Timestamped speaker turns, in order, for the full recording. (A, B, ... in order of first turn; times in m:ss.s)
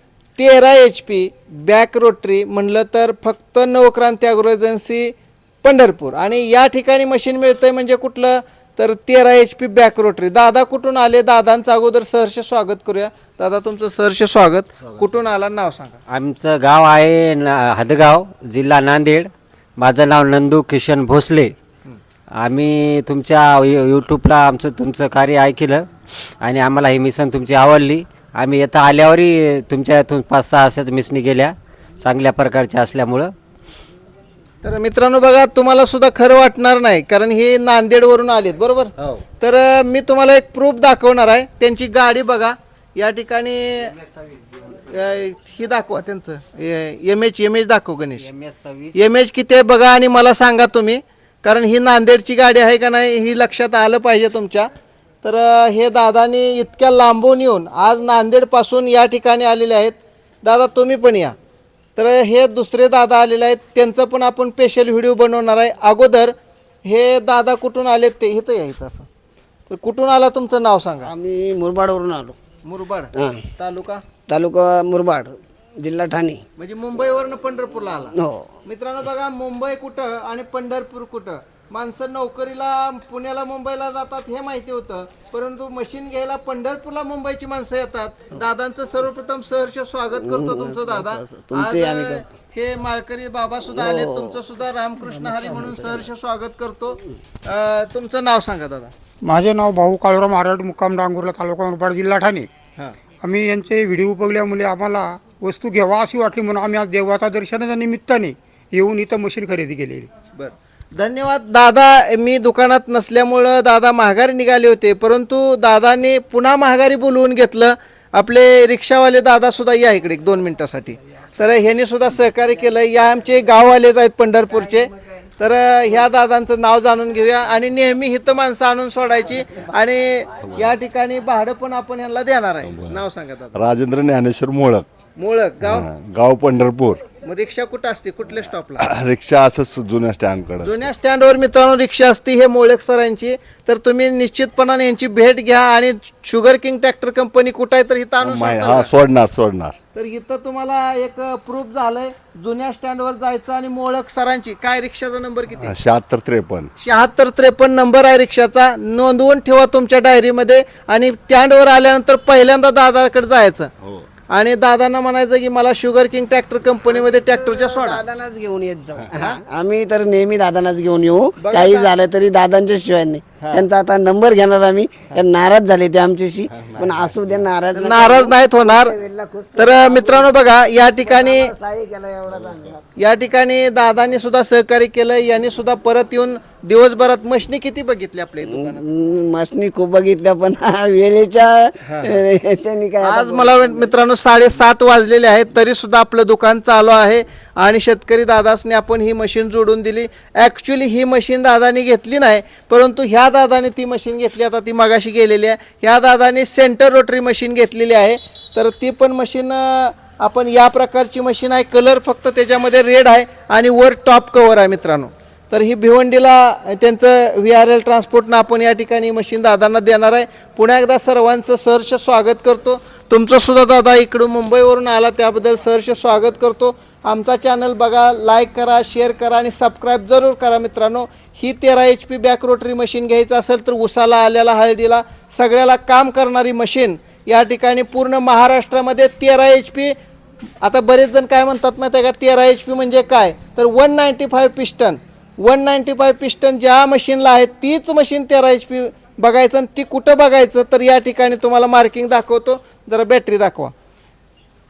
0:00.4-0:16.0 A
0:16.1-0:21.5 B
0:22.4-0:25.9 B
0:26.4-0:33.3 B
0:34.6-0:43.9 A
0:44.7-0:48.3 A
0:48.2-0:49.0 B
0:48.9-0:54.7 A
0:55.2-1:01.3 A
1:02.0-1:06.3 A
1:06.8-1:09.1 A
1:09.7-1:11.1 A
1:11.0-1:12.4 C
1:12.6-1:14.0 A
1:13.1-1:13.4 C
1:14.3-1:16.4 C
1:16.6-1:38.9 A
1:18.2-1:18.5 C
1:30.2-1:32.2 C
1:33.7-1:34.4 C
1:35.5-1:36.0 C
1:39.2-1:42.5 D
1:43.2-1:50.1 D
1:50.4-2:13.6 A
2:10.4-2:10.7 E
2:12.6-2:14.9 E
2:15.2-2:15.8 A
2:15.6-2:17.0 E
2:17.2-2:18.9 A
2:18.8-2:20.9 E
2:20.6-2:28.9 A
2:28.2-2:29.7 E
2:29.9-2:35.7 A
2:35.5-2:36.7 E
2:36.8-2:43.7 A
2:44.3-2:48.0 A
2:46.9-3:00.3 C
2:49.1-2:49.4 A
2:51.4-2:51.9 A
2:53.4-2:53.7 A
2:56.5-2:57.4 E
2:57.7-2:59.0 A
2:59.6-3:01.5 A
3:01.0-3:02.8 C
3:03.0-3:08.8 A
3:08.4-3:13.9 C
3:11.8-3:12.2 A
3:13.0-3:59.9 A
4:00.6-4:13.7 A